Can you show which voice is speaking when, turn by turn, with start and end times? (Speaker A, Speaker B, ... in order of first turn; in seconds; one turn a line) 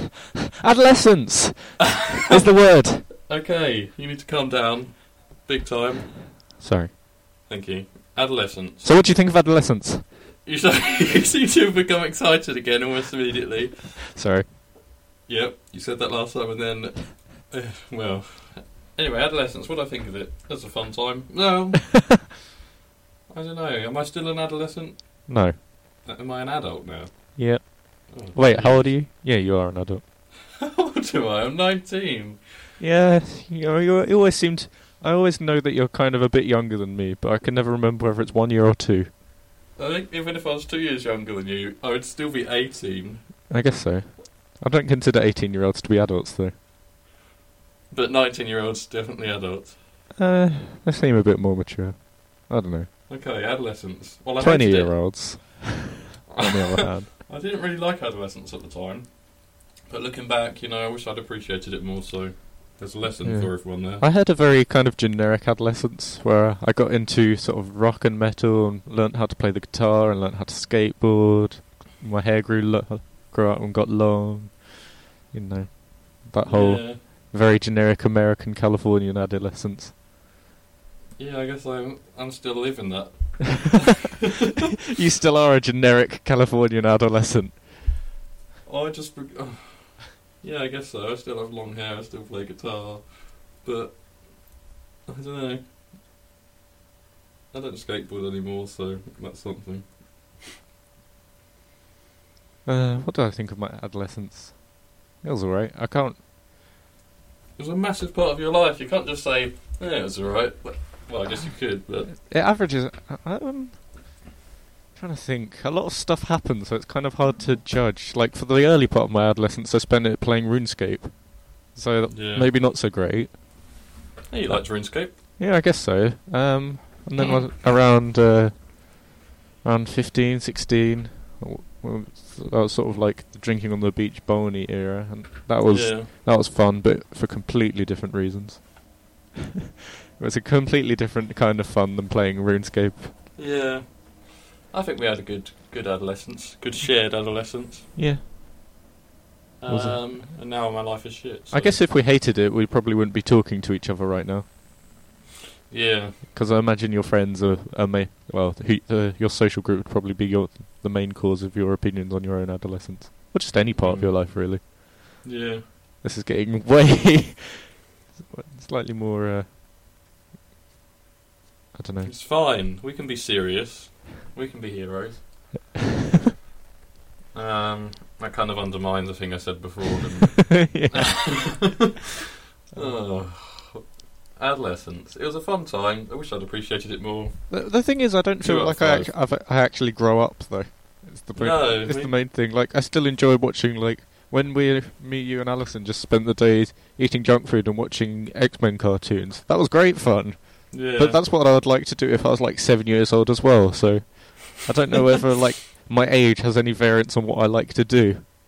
Speaker A: 0.6-3.1
Speaker B: 1.8-6.2
Speaker A: 6.6-6.9
Speaker B: 7.5-9.0
Speaker A: 8.8-10.0
Speaker B: 10.4-14.1
Speaker A: 14.2-14.5
Speaker B: 15.3-22.2
Speaker B: 23.3-29.0
Speaker A: 25.3-25.6
Speaker A: 27.4-30.0
Speaker B: 30.6-32.5
Speaker A: 32.8-39.1
Speaker B: 39.8-43.8
Speaker A: 43.5-46.5
Speaker B: 47.9-49.8
Speaker A: 50.2-52.9
Speaker B: 53.1-55.1
Speaker A: 54.4-57.1
Speaker B: 56.3-64.0
Speaker A: 63.2-79.9
Speaker B: 76.4-77.0
Speaker B: 81.2-84.1
Speaker A: 84.9-87.7
Speaker B: 88.6-95.7
Speaker B: 97.5-100.4
Speaker A: 102.6-106.2
Speaker B: 107.5-112.2
Speaker A: 112.1-114.4
Speaker A: 114.9-123.4
Speaker B: 122.1-122.5
Speaker B: 124.3-125.2
Speaker A: 124.5-129.1
Speaker A: 129.6-139.3
Speaker B: 135.7-136.1
Speaker A: 140.2-143.1
Speaker B: 143.3-147.9
Speaker A: 147.9-148.2
Speaker B: 149.6-151.8
Speaker A: 149.7-150.2
Speaker A: 151.5-154.5
Speaker B: 155.7-156.2
Speaker A: 156.3-165.2
Speaker B: 163.7-164.5
Speaker B: 165.2-165.7
Speaker A: 166.0-169.5
Speaker A: 171.8-172.1
Speaker B: 172.0-175.5
Speaker B: 177.3-181.9
Speaker A: 180.6-181.8
Speaker B: 182.7-189.2
Speaker A: 187.5-208.2
Speaker B: 191.3-192.1
Speaker B: 200.7-201.2